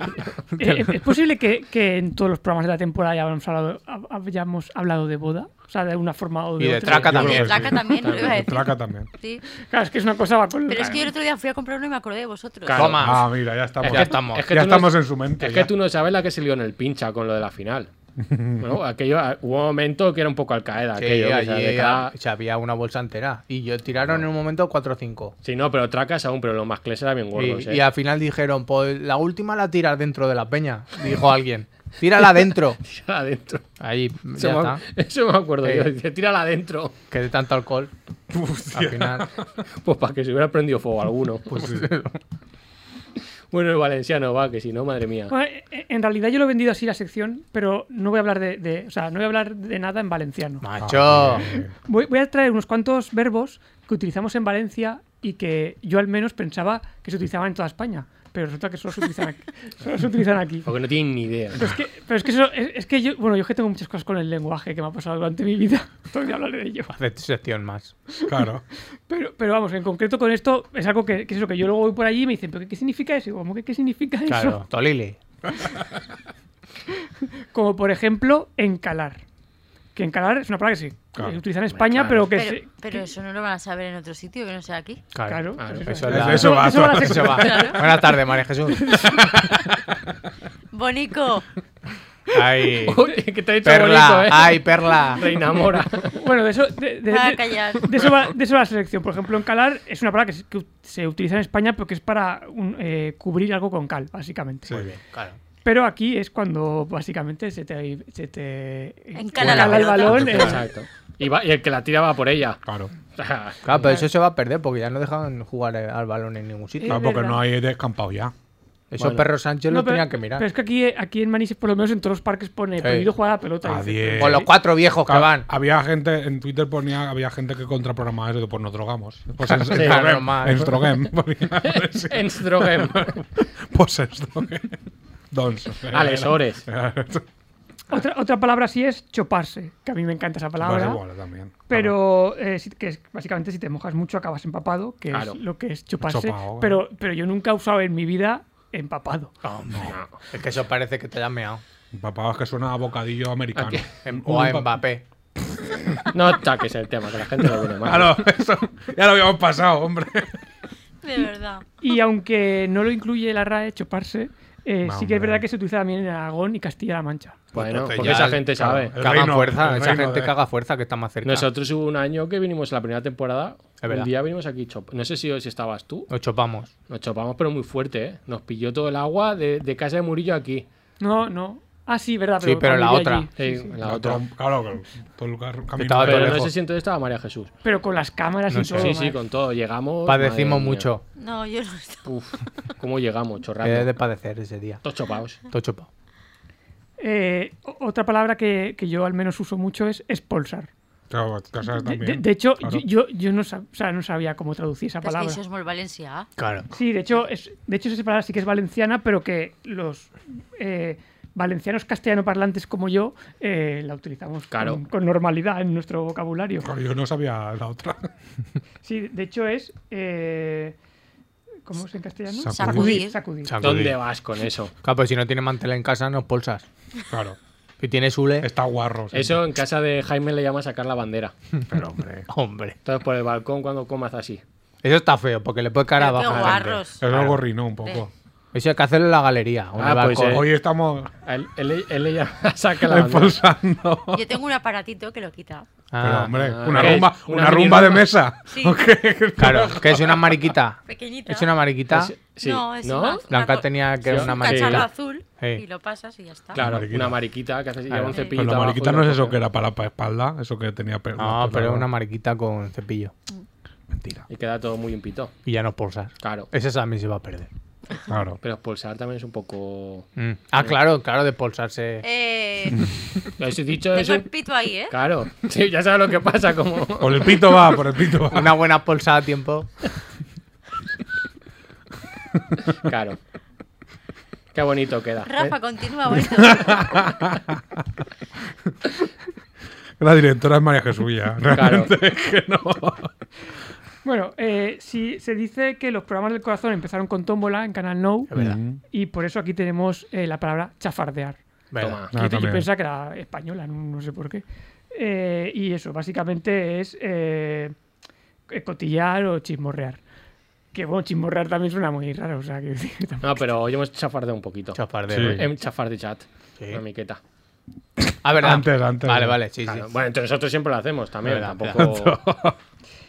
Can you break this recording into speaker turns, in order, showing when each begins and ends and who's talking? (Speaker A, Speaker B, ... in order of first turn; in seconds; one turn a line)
Speaker A: 0.6-7.3
Speaker B: 0.6-0.9
Speaker B: 6.6-7.7
Speaker C: 7.0-9.1
Speaker D: 7.1-9.4
Speaker E: 8.0-8.4
Speaker A: 9.7-11.1
Speaker D: 10.7-13.0
Speaker E: 12.7-13.2
Speaker B: 12.7-13.3
Speaker C: 13.0-15.7
Speaker E: 13.8-17.9
Speaker B: 13.8-14.5
Speaker C: 18.2-18.7
Speaker E: 18.6-22.1
Speaker B: 21.0-25.3
Speaker E: 25.4-27.8
Speaker B: 27.4-32.8
Speaker E: 32.8-33.6
Speaker B: 33.8-34.8
Speaker E: 34.4-37.0
Speaker B: 35.6-35.9
Speaker B: 37.1-37.9
Speaker C: 38.3-39.4
Speaker B: 38.7-39.2
Speaker E: 39.8-41.5
Speaker B: 41.5-42.2
Speaker C: 41.6-41.9
Speaker E: 43.5-45.3
Speaker A: 45.3-50.6
Speaker B: 50.6-51.5
Speaker C: 50.8-51.7
Speaker A: 51.5-60.7
Speaker E: 60.7-61.6
Speaker A: 61.6-66.9
Speaker B: 66.9-67.9
Speaker C: 68.3-68.6
Speaker A: 69.1-74.6
Speaker B: 74.3-75.2
Speaker A: 77.5-79.2
Speaker A: 80.0-83.1
Speaker E: 81.8-82.2
Speaker D: 82.3-85.0
Speaker B: 85.1-89.0
Speaker A: 85.3-87.8
Speaker E: 85.6-85.9
Speaker C: 86.1-87.5
Speaker D: 87.4-87.8
Speaker A: 88.8-89.2
Speaker D: 90.7-91.5
Speaker B: 92.3-93.0
Speaker E: 92.8-96.1
Speaker B: 93.6-95.2
Speaker A: 96.1-104.7
Speaker D: 97.1-98.0
Speaker C: 104.7-104.9
Speaker B: 104.7-105.4
Speaker A: 105.6-110.6
Speaker D: 109.2-110.6
Speaker E: 110.1-112.6
Speaker C: 112.7-112.9
Speaker E: 113.1-113.9
Speaker B: 113.7-117.0
Speaker A: 116.8-117.4
Speaker C: 116.9-118.3
Speaker B: 118.9-120.5
Speaker E: 119.0-119.3
Speaker A: 119.7-124.5
Speaker B: 122.8-123.1
Speaker C: 123.6-124.5
Speaker B: 124.2-125.5
Speaker C: 125.1-134.8
Speaker B: 129.5-130.8
Speaker E: 129.7-130.1
Speaker E: 131.6-133.2
Speaker C: 135.3-137.2
Speaker E: 135.9-136.7
Speaker A: 137.9-141.0
Speaker C: 140.6-141.9
Speaker A: 141.7-149.3
Speaker E: 145.1-145.4
Speaker C: 146.0-146.8
Speaker B: 149.4-151.6
Speaker E: 149.9-150.1
Speaker C: 151.9-154.7
Speaker E: 153.6-153.9
Speaker B: 154.1-155.0
Speaker C: 155.5-156.1
Speaker E: 156.1-158.2
Speaker C: 157.8-160.4
Speaker D: 161.0-161.7
Speaker A: 161.8-167.4
Speaker C: 164.8-165.4
Speaker E: 167.5-168.9
Speaker B: 167.5-171.5
Speaker C: 168.0-170.3
Speaker E: 171.2-176.1
Speaker B: 173.8-174.1
Speaker B: 176.1-176.7
Speaker E: 176.9-180.7
Speaker A: 181.0-183.7
Speaker B: 182.4-183.3
Speaker E: 183.4-184.2
Speaker C: 183.8-186.5
Speaker B: 185.8-186.5
Speaker E: 186.0-187.5
Speaker A: 187.6-189.2
Speaker B: 188.5-189.0
Speaker E: 188.8-190.9
Speaker B: 190.1-191.0
Speaker D: 191.2-192.1
Speaker E: 192.1-193.9
Speaker B: 193.6-194.8
Speaker E: 194.8-195.4
Speaker B: 195.5-195.9
Speaker A: 197.0-200.7
Speaker C: 201.1-202.8
Speaker A: 201.6-205.4
Speaker D: 205.0-206.3
Speaker B: 206.4-206.7
Speaker A: 206.7-216.7
Speaker E: 214.5-214.8
Speaker C: 216.6-218.1
Speaker A: 218.8-220.8
Speaker A: 221.7-223.5
Speaker C: 222.3-223.1
Speaker D: 222.5-223.2
Speaker B: 223.4-224.0
Speaker E: 223.6-224.7
Speaker B: 224.8-226.7
Speaker C: 227.1-227.4
Speaker B: 227.8-228.5
Speaker C: 228.4-229.4
Speaker E: 229.1-231.3
Speaker C: 231.7-232.2
Speaker B: 232.2-232.8
Speaker E: 232.8-234.4
Speaker B: 234.8-237.3
Speaker D: 235.9-237.0
Speaker E: 236.3-236.8
Speaker C: 237.0-238.1
Speaker B: 238.5-240.4
Speaker E: 239.8-240.4
Speaker C: 240.3-241.1
Speaker E: 241.3-243.4
Speaker C: 242.9-244.2
Speaker D: 244.1-245.7
Speaker B: 245.9-247.0
Speaker C: 246.0-250.3
Speaker E: 246.3-248.1
Speaker D: 248.5-248.8
Speaker B: 249.4-252.1
Speaker D: 250.9-251.5
Speaker E: 251.9-253.2
Speaker D: 252.4-256.6
Speaker B: 253.3-255.6
Speaker E: 254.1-254.9
Speaker E: 256.6-259.4
Speaker C: 256.6-257.2
Speaker B: 257.9-258.2
Speaker C: 258.3-261.9
Speaker B: 261.2-263.1
Speaker E: 264.3-265.3
Speaker B: 265.5-267.5
Speaker E: 266.2-266.5
Speaker C: 268.1-268.4
Speaker E: 268.4-270.1
Speaker B: 270.2-272.0
Speaker D: 272.0-272.9
Speaker E: 273.4-274.3
Speaker D: 273.9-274.9
Speaker E: 274.9-277.4
Speaker C: 277.0-278.5
Speaker B: 278.3-279.7
Speaker E: 282.9-283.2
Speaker E: 284.5-285.6
Speaker D: 285.2-287.0
Speaker C: 286.4-287.6
Speaker C: 290.0-293.1
Speaker E: 291.5-291.9
Speaker A: 294.0-298.3
Speaker B: 298.3-298.6
Speaker C: 298.4-298.8
Speaker A: 298.9-301.4
Speaker B: 301.7-302.0
Speaker E: 301.8-302.1
Speaker C: 302.1-302.7
Speaker A: 302.1-307.8
Speaker A: 308.5-310.0
Speaker A: 310.7-313.4
Speaker E: 313.2-317.2
Speaker B: 314.8-315.5
Speaker C: 315.1-315.4
Speaker B: 318.2-319.9
Speaker C: 318.4-319.4
Speaker E: 319.7-322.2
Speaker B: 321.2-321.9
Speaker C: 321.8-322.6